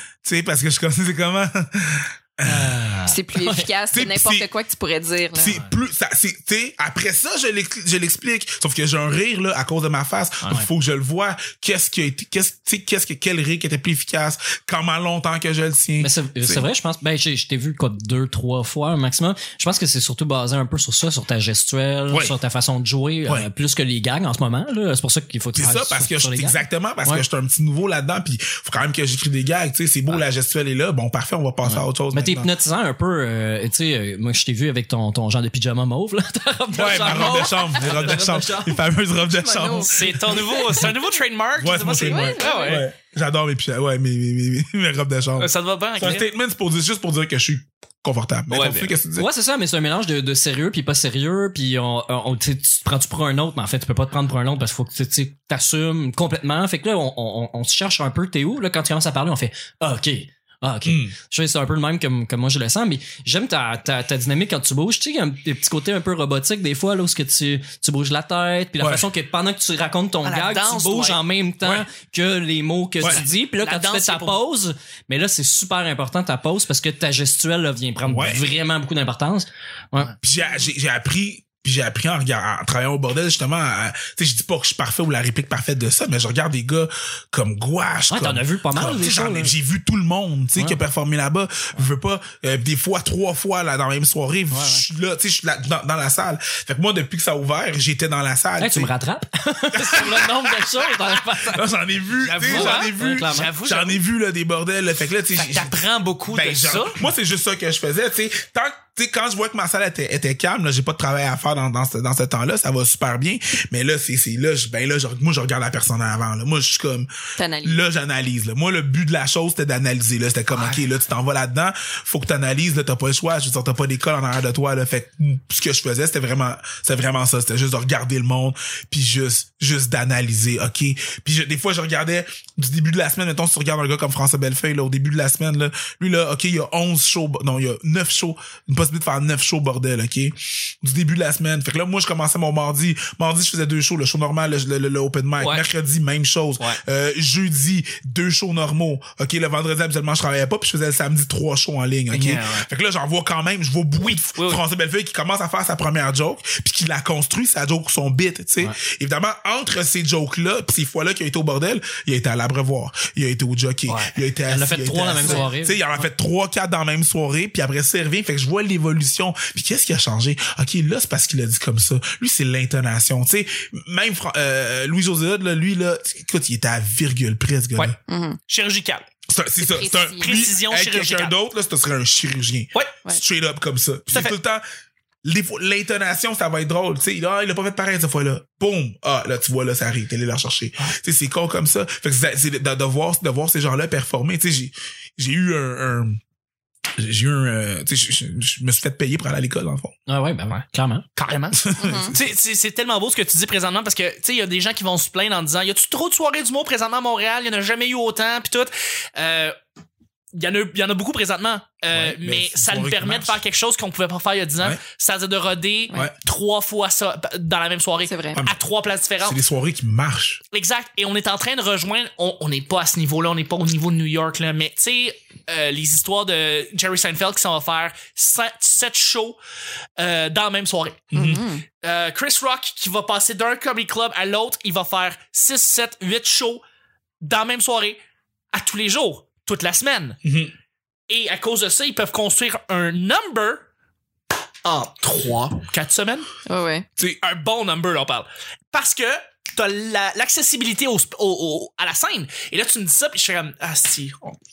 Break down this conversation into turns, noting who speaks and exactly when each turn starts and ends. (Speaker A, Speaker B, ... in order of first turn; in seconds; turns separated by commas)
Speaker A: 0.2-2.9, Speaker B: 2.4-3.7, Speaker C: 3.1-5.6, Speaker A: 3.9-4.5, Speaker A: 5.3-16.6, Speaker B: 16.0-27.2, Speaker A: 25.5-32.5, Speaker B: 31.6-38.8, Speaker A: 36.7-40.9, Speaker C: 39.3-40.9, Speaker D: 39.6-42.8, Speaker A: 41.6-49.3, Speaker C: 42.0-42.9, Speaker D: 45.4-46.2, Speaker D: 48.5-48.9, Speaker B: 49.1-80.1, Speaker A: 60.9-61.1, Speaker A: 68.8-69.0, Speaker D: 70.2-71.8, Speaker D: 73.0-74.4, Speaker A: 78.1-78.4, Speaker A: 80.2-98.9, Speaker B: 88.1-89.5, Speaker B: 94.5-94.8, Speaker B: 98.6-101.7, Speaker A: 99.7-117.1, Speaker D: 102.2-104.0, Speaker B: 102.4-103.5, Speaker D: 105.3-107.0, Speaker C: 117.3-117.8, Speaker A: 117.6-177.9, Speaker D: 120.5-120.8, Speaker D: 152.1-152.7, Speaker D: 154.0-154.6, Speaker B: 163.9-165.8, Speaker C: 178.1-178.4, Speaker D: 178.5-179.0, Speaker A: 179.3-184.6, Speaker C: 179.6-180.5, Speaker D: 180.2-181.3, Speaker D: 184.1-184.3, Speaker A: 185.2-196.2, Speaker A: 197.0-199.9, Speaker B: 200.1-201.1, Speaker D: 201.2-201.6, Speaker A: 201.5-202.2, Speaker C: 201.8-202.1, Speaker D: 202.1-209.5, Speaker D: 210.3-219.4, Speaker A: 211.9-213.4, Speaker C: 218.1-218.4, Speaker A: 218.3-218.6, Speaker A: 219.2-220.4, Speaker D: 220.5-229.4, Speaker D: 230.0-231.1, Speaker A: 231.1-231.4, Speaker C: 231.1-231.6, Speaker D: 231.8-236.6, Speaker D: 237.2-238.0, Speaker D: 238.5-240.2, Speaker A: 240.2-240.5, Speaker D: 241.1-243.6, Speaker D: 244.6-246.3, Speaker C: 246.4-246.8, Speaker D: 247.2-254.4